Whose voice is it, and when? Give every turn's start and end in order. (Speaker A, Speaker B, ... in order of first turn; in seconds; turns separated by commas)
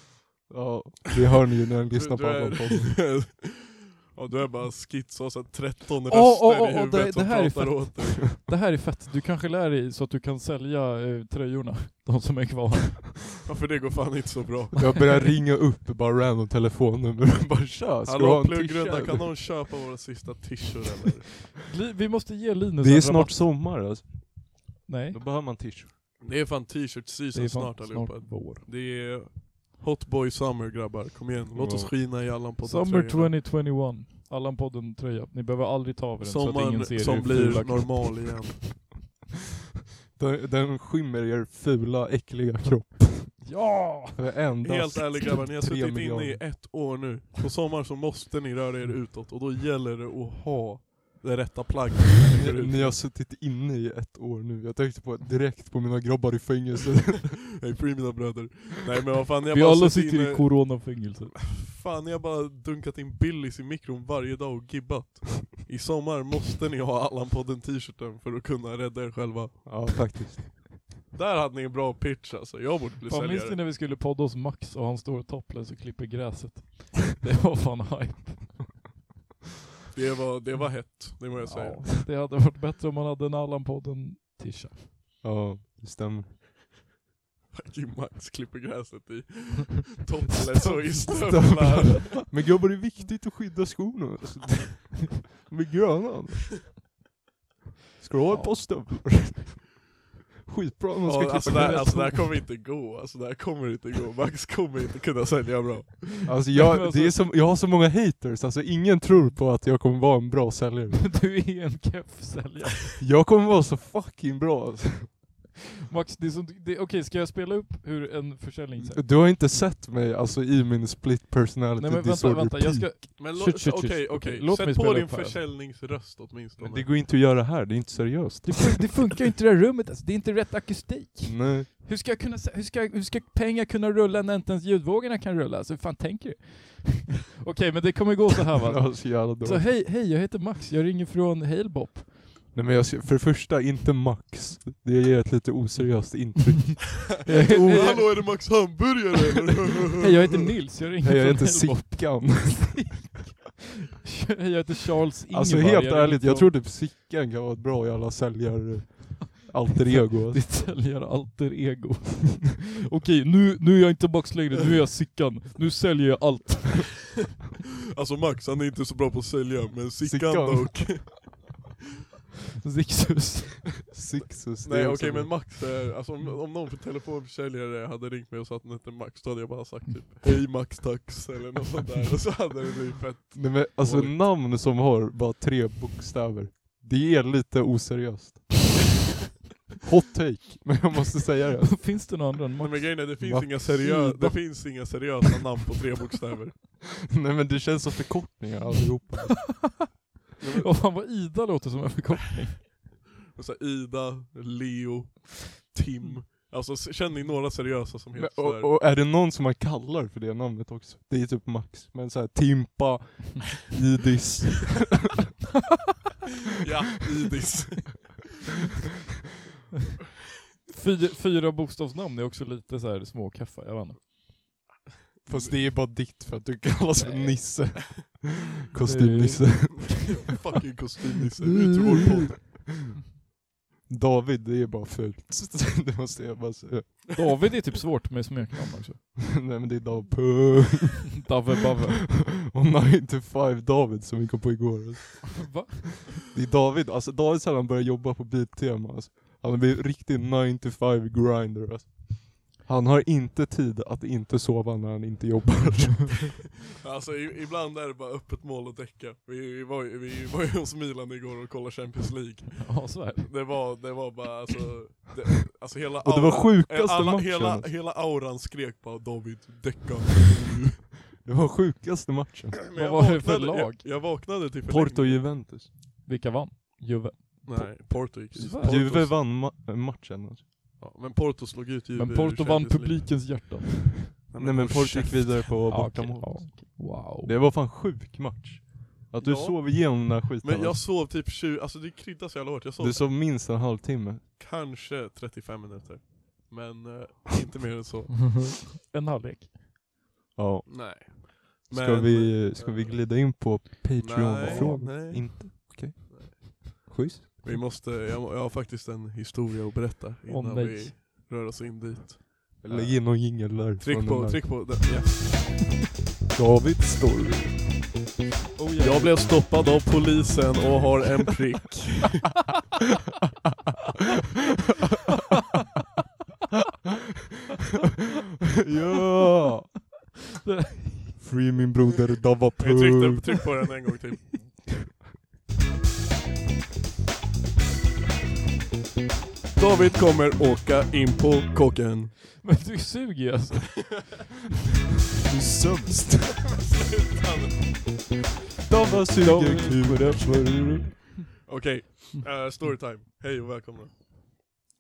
Speaker A: 0.5-3.1, Speaker B: 1.9-8.3, Speaker C: 6.1-13.3, Speaker B: 13.4-15.0, Speaker A: 14.8-19.4, Speaker B: 18.1-21.4, Speaker C: 21.7-23.5, Speaker A: 22.8-25.9, Speaker C: 24.9-25.2, Speaker B: 26.2-33.4, Speaker C: 27.3-28.7, Speaker A: 31.5-31.9, Speaker C: 32.6-38.1, Speaker B: 36.2-38.7, Speaker A: 40.1-46.4, Speaker C: 43.5-44.3, Speaker B: 44.6-53.0, Speaker A: 52.4-57.5, Speaker B: 57.6-70.0, Speaker C: 59.5-61.4, Speaker A: 69.7-70.8, Speaker B: 71.1-73.6, Speaker C: 73.1-78.7, Speaker B: 79.9-81.9, Speaker C: 81.4-84.9, Speaker A: 85.2-86.3, Speaker B: 87.5-92.2, Speaker A: 91.1-96.7, Speaker A: 98.0-99.9, Speaker C: 98.3-98.7, Speaker A: 100.5-102.2, Speaker B: 101.0-106.3, Speaker C: 101.5-102.4, Speaker A: 106.3-111.3, Speaker C: 106.5-107.3, Speaker C: 111.0-113.0, Speaker A: 113.0-115.2, Speaker C: 115.9-119.1, Speaker A: 118.8-123.0, Speaker C: 121.8-125.4, Speaker B: 123.2-126.9, Speaker A: 126.6-128.8, Speaker C: 128.4-142.1, Speaker A: 131.2-131.7, Speaker A: 138.6-139.7, Speaker A: 142.5-148.7, Speaker C: 147.2-148.2, Speaker B: 147.3-150.1, Speaker C: 150.0-153.2, Speaker A: 150.9-153.1, Speaker C: 154.0-156.6, Speaker A: 155.3-160.4, Speaker C: 160.1-167.1, Speaker B: 168.0-171.6, Speaker A: 170.0-171.2, Speaker C: 172.6-173.8, Speaker A: 173.9-175.4, Speaker B: 174.6-184.2, Speaker A: 183.3-188.7, Speaker A: 189.8-192.2, Speaker C: 191.6-195.1, Speaker B: 192.6-196.7, Speaker A: 193.2-193.8, Speaker A: 197.1-199.8, Speaker B: 200.4-200.7, Speaker C: 200.6-202.7, Speaker B: 203.3-208.8, Speaker A: 208.2-215.1, Speaker B: 216.6-218.3, Speaker C: 220.7-224.2, Speaker A: 225.3-230.2, Speaker C: 227.0-227.5, Speaker C: 228.8-230.0, Speaker B: 230.0-232.6, Speaker A: 231.7-232.6, Speaker A: 233.9-237.2, Speaker C: 237.2-239.0, Speaker A: 239.2-241.3, Speaker C: 241.2-242.1, Speaker A: 242.1-256.3, Speaker C: 245.4-246.1, Speaker B: 256.8-270.9, Speaker C: 262.6-263.3, Speaker A: 266.0-267.7, Speaker A: 271.2-272.6, Speaker B: 272.7-275.4, Speaker C: 272.8-273.8, Speaker A: 274.7-275.7, Speaker C: 276.1-278.9, Speaker B: 277.4-279.2, Speaker A: 277.6-280.4, Speaker B: 280.8-283.3, Speaker C: 282.0-284.2, Speaker B: 284.3-285.4, Speaker A: 284.4-290.8, Speaker C: 285.7-287.3, Speaker B: 289.2-293.1, Speaker A: 292.8-294.2, Speaker B: 294.4-298.6, Speaker C: 298.4-299.5, Speaker A: 300.4-307.3, Speaker B: 300.7-315.8, Speaker C: 304.4-304.9, Speaker C: 310.3-311.0, Speaker A: 312.6-314.5, Speaker C: 312.7-312.9, Speaker A: 316.3-317.8, Speaker C: 318.6-319.2, Speaker B: 318.8-322.4, Speaker A: 328.6-329.8, Speaker C: 330.4-331.2, Speaker A: 331.2-333.4, Speaker B: 332.6-334.4, Speaker B: 339.6-342.4, Speaker C: 342.4-344.1, Speaker A: 345.2-346.4, Speaker B: 346.5-348.1, Speaker A: 348.7-350.9, Speaker C: 349.0-351.2, Speaker B: 351.4-353.9